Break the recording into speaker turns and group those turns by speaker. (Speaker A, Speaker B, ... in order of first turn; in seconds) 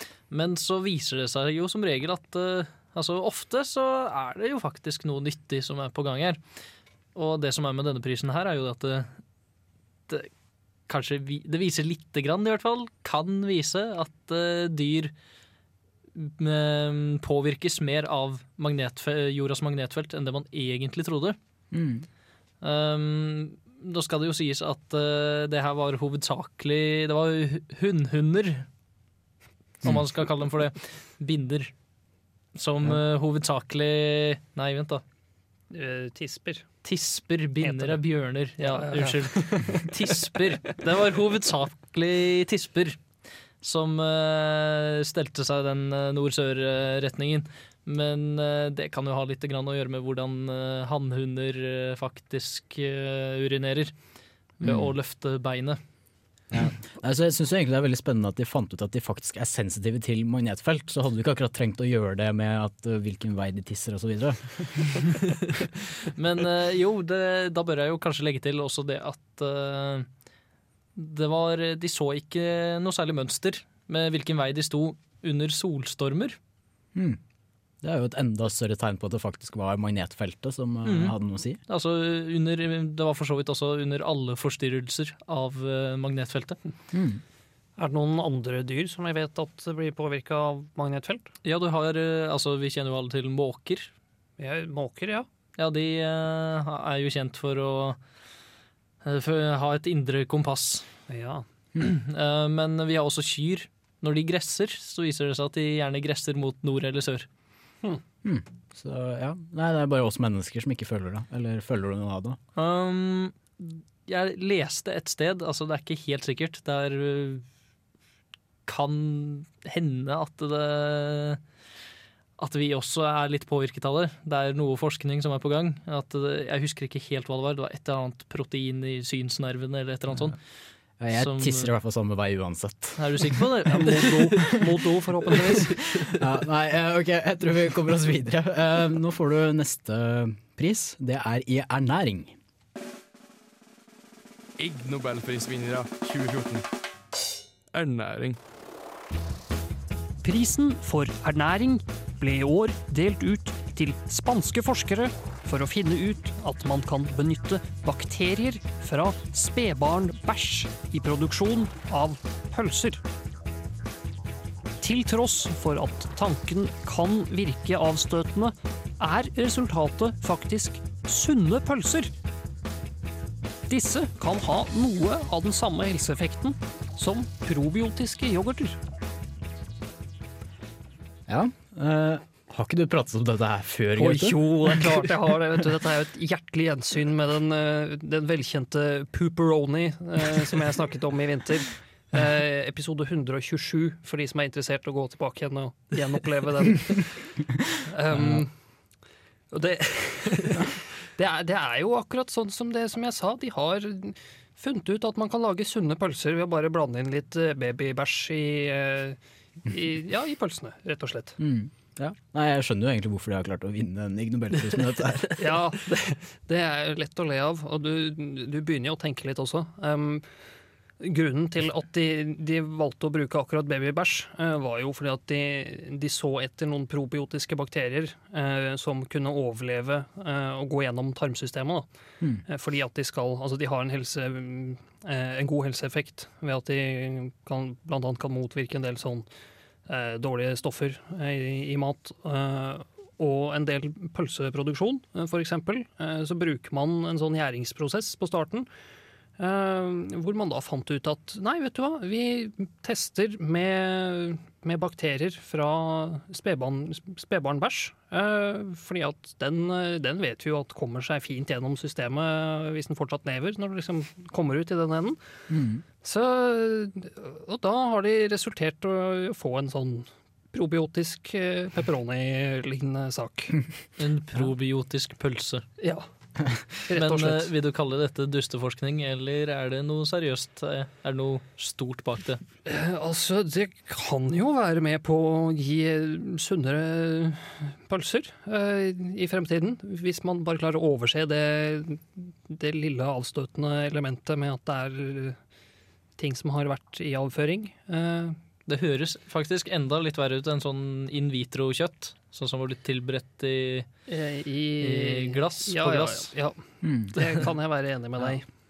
Speaker A: 0.3-6.4, 7.2-9.1, 10.9-15.1, 16.2-21.4, 22.6-28.7, 29.8-31.7, 32.5-35.0, 36.8-43.0, 43.6-53.9, 54.6-55.8, 66.1-70.1, 71.0-76.4, 80.8-81.2, 81.7-86.6, 91.4-93.9, 95.6-98.0, 99.0-100.9, 101.8-107.3, 112.6-117.5, 118.7-121.4, 122.4-130.4, 131.1-131.7, 133.0-134.6, 274.0-275.7, 276.9-282.4, 298.7-303.9, 304.8-306.3
Speaker B: 21.7-22.1, 54.6-54.9, 56.5-64.9, 77.8-81.6, 86.9-87.2, 108.2-112.4, 131.0-133.3, 136.2-142.4, 181.3-185.0, 198.1-198.4, 211.4-215.3, 265.5-265.8, 306.8-307.2
Speaker C: 35.7-36.7, 37.6-38.0, 38.6-39.9, 87.8-91.3, 94.4-95.3, 101.1-101.5, 133.7-135.8, 150.2-163.0, 164.8-172.1, 173.7-178.8, 184.0-198.5, 199.5-211.4, 215.4-220.3, 221.0-231.9, 232.5-239.3, 239.9-248.7, 249.4-265.2, 266.0-273.6, 275.8-276.1, 276.9-277.5, 282.6-295.4, 296.2-298.4, 304.1-306.6, 307.1-308.4
Speaker D: 144.6-146.6, 147.7-148.4